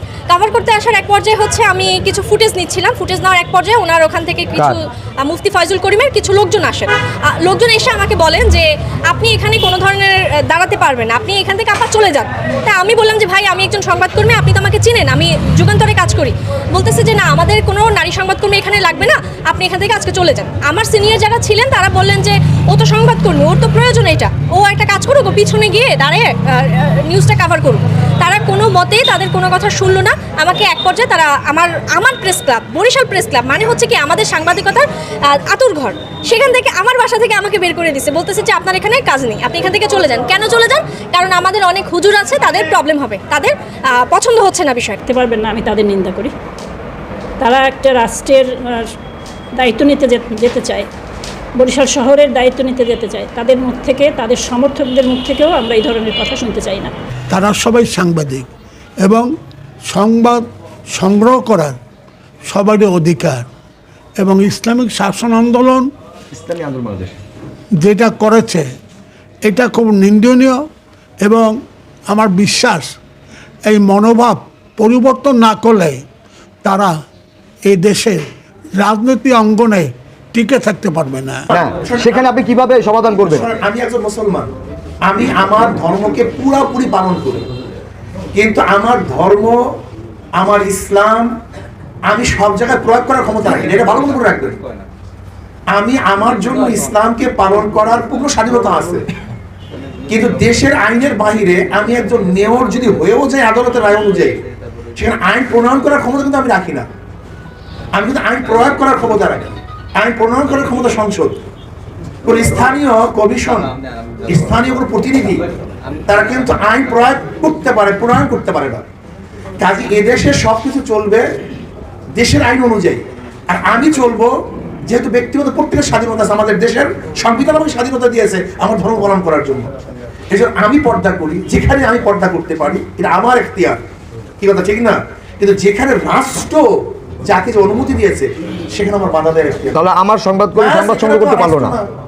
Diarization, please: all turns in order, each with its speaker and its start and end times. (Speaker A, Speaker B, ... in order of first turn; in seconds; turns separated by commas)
Speaker A: 0.3-45.1, Speaker B: 45.1-46.3, Speaker B: 47.4-48.9, Speaker B: 49.6-50.9, Speaker B: 51.6-56.9, Speaker C: 57.3-58.5, Speaker C: 59.0-59.3, Speaker C: 59.9-61.8, Speaker C: 62.5-63.5, Speaker C: 64.2-65.9, Speaker D: 66.3-67.2, Speaker C: 67.8-68.7, Speaker C: 69.5-70.6, Speaker C: 71.2-71.5, Speaker C: 72.1-73.0, Speaker C: 73.7-76.0, Speaker C: 76.6-76.9, Speaker C: 77.7-78.2, Speaker C: 78.8-81.5, Speaker E: 81.5-82.3, Speaker D: 81.5-83.5, Speaker E: 83.2-84.5, Speaker E: 85.0-87.5, Speaker E: 88.3-89.6, Speaker E: 90.4-91.3, Speaker E: 92.1-94.6, Speaker E: 95.7-99.1, Speaker E: 100.1-104.4, Speaker E: 105.0-106.9, Speaker E: 107.9-111.4, Speaker E: 112.2-113.7, Speaker E: 114.3-115.5, Speaker E: 116.0-118.8, Speaker E: 119.6-121.2, Speaker E: 122.2-124.3, Speaker E: 124.9-129.7, Speaker E: 130.3-133.8, Speaker E: 134.4-136.7, Speaker E: 137.3-139.8, Speaker D: 139.8-141.8, Speaker E: 140.6-141.9